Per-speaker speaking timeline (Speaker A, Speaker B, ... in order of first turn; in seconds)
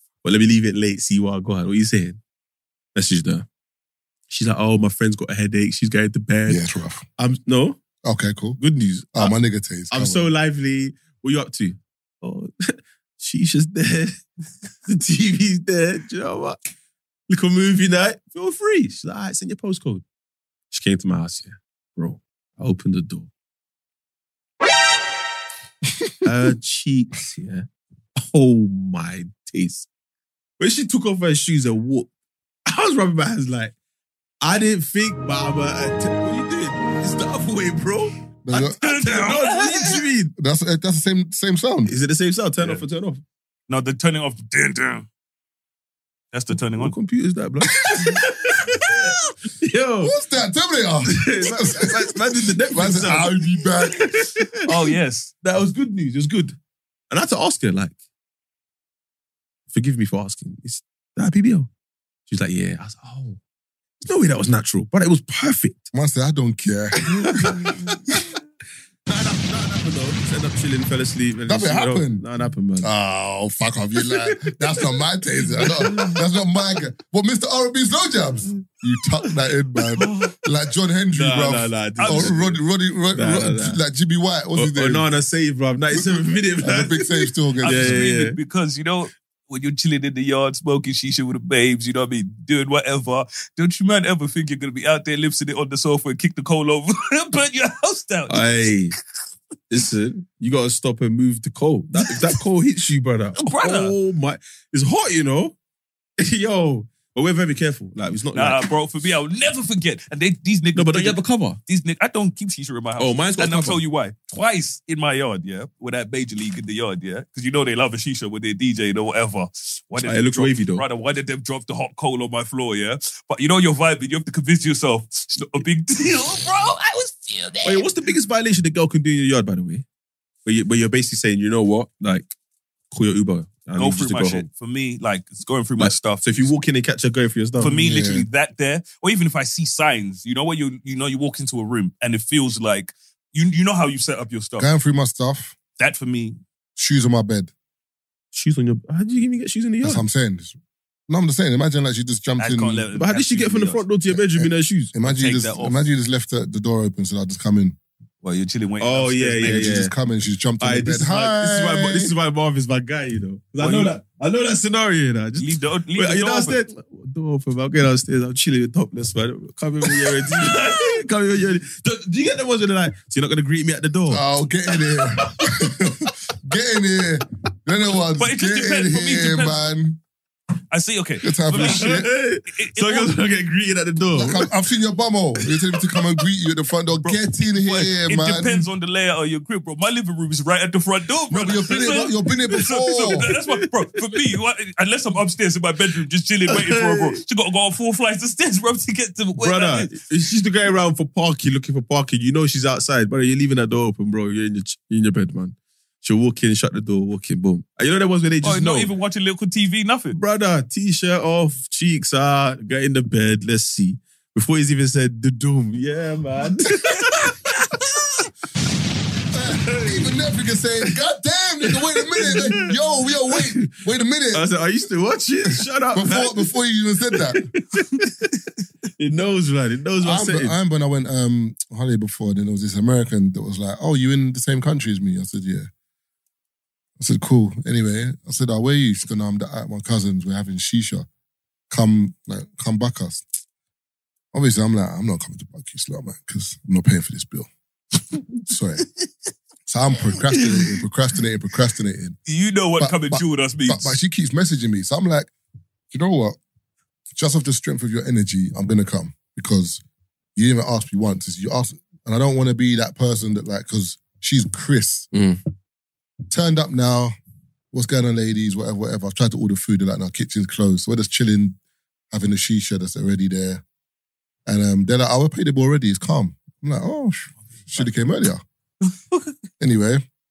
Speaker A: 0.2-2.2, 3.0-3.5, 4.3-6.6, 7.2-7.8, 8.6-9.4, 9.9-14.2, 14.9-16.6, 17.3-20.0, 20.7-23.3, 26.2-29.9, 30.6-32.1, 32.7-33.7, 34.4-40.3, 41.9-43.2, 46.7-50.1, 51.1-54.6, 55.4-56.6, 57.1-58.0, 59.7-61.7, 62.3-63.4, 64.0-65.9, 67.1-67.9, 69.1-72.9, 75.6-76.2, 81.1-82.6, 83.1-83.8, 84.5-87.0, 87.6-88.4, 98.3-98.9, 99.7-105.5, 106.2-108.6, 110.8-111.6, 113.0-113.8, 120.0-120.8, 127.6-129.8, 130.4-132.3, 132.9-134.5, 135.8-137.7, 148.3-150.0, 153.0-154.9, 158.8-159.9, 160.6-174.2, 181.5-184.5, 191.8-192.1, 193.1-193.7, 196.5-197.2, 199.4-208.9, 210.1-217.7, 219.5-220.2, 222.1-222.8, 224.3-226.4, 227.3-227.9, 229.0-230.6, 265.1-265.4
Speaker B: 6.5-7.1, 8.0-8.6, 9.1-10.3, 38.5-38.8, 40.4-41.9, 47.9-48.2, 50.0-54.1, 65.9-67.7, 71.5-72.2, 72.8-85.1, 86.6-88.0, 137.6-138.3, 144.6-145.6, 146.8-147.5, 149.8-150.6, 151.1-152.8, 154.1-157.8, 159.4-162.1, 174.1-180.0, 181.2-182.1, 184.2-188.7, 191.3-193.3, 219.3-224.5, 225.9-227.5, 230.0-235.7, 237.0-241.1, 241.7-243.2, 244.3-247.5, 248.5-248.9, 249.7-252.2, 252.8-255.3, 255.9-256.4, 257.2-259.8, 260.4-265.1, 266.3-267.1, 267.7-271.6, 272.1-273.6, 274.5-278.4, 279.6-280.0
Speaker C: 38.8-40.0, 43.7-45.1, 46.3-47.0, 54.6-55.3, 80.0-80.3, 82.0-82.4, 87.6-98.5, 103.4-104.0, 108.3-127.9, 133.8-136.5, 137.6-144.7, 145.8-146.4, 152.4-153.9, 155.0-155.8, 158.2-159.8, 163.6-164.0, 165.4-166.6, 178.2-179.6, 180.7-183.1, 187.6-199.9, 208.4-210.2, 252.3-254.0